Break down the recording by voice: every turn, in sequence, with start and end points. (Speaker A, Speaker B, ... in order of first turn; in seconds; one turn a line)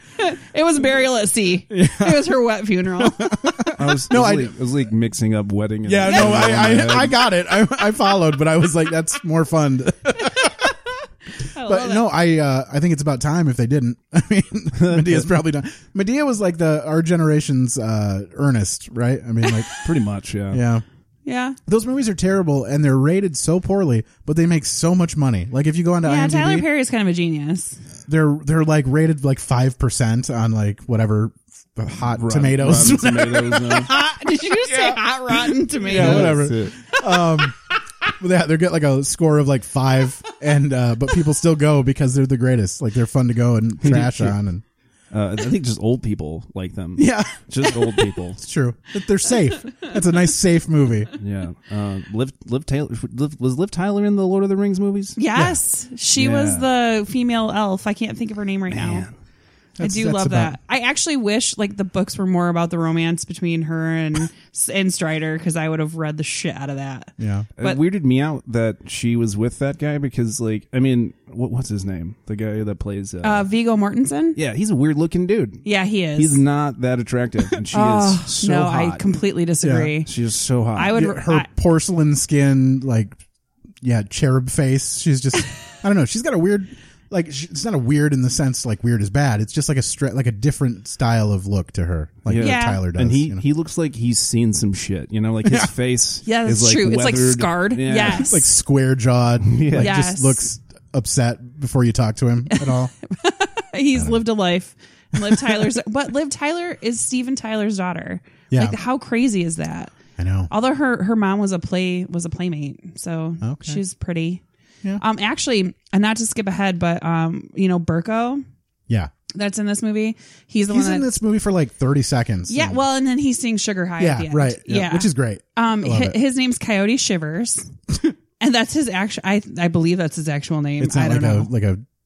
Speaker A: 0.2-3.5
Speaker B: 1.7-2.4
Speaker B: 3.0-4.5
Speaker C: 3.7-7.2
Speaker B: 5.8-10.7
Speaker A: 6.0-6.5
Speaker A: 11.5-12.1
Speaker B: 11.6-19.7
Speaker C: 14.7-15.3
Speaker C: 19.8-20.6
Speaker B: 20.5-20.8
Speaker A: 21.2-21.6
Speaker B: 21.7-26.7
Speaker A: 26.0-27.8
Speaker B: 28.1-33.9
Speaker C: 32.1-33.9
Speaker A: 33.8-36.4
Speaker B: 34.6-37.6
Speaker C: 35.9-36.8
Speaker B: 38.2-44.6
Speaker C: 43.8-44.4
Speaker C: 45.1-48.4
Speaker B: 47.0-51.1
Speaker C: 51.2-55.2
Speaker A: 55.2-59.1
Speaker C: 56.1-56.7
Speaker C: 58.7-59.1
Speaker B: 59.8-60.6
Speaker A: 59.8-67.8
Speaker B: 67.2-67.5
Speaker C: 67.6-73.5
Speaker A: 73.2-74.4
Speaker C: 74.3-79.2
Speaker A: 75.6-76.4
Speaker A: 77.7-80.1
Speaker B: 79.6-79.9
Speaker C: 80.0-81.0
Speaker A: 80.7-81.5
Speaker B: 80.9-83.2
Speaker B: 83.8-93.4
Speaker C: 92.2-98.3
Speaker A: 92.3-92.8
Speaker A: 96.2-98.4
Speaker B: 98.0-102.9
Speaker C: 99.5-99.9
Speaker A: 99.8-100.4
Speaker A: 102.5-109.9
Speaker B: 103.9-104.2
Speaker B: 105.2-105.7
Speaker B: 108.5-108.8
Speaker B: 110.2-110.5
Speaker A: 110.5-114.4
Speaker B: 113.4-113.8
Speaker A: 115.0-118.4
Speaker A: 119.3-121.1
Speaker B: 120.7-122.8
Speaker A: 122.5-127.7
Speaker B: 124.0-126.2
Speaker A: 128.4-131.5
Speaker B: 130.8-131.8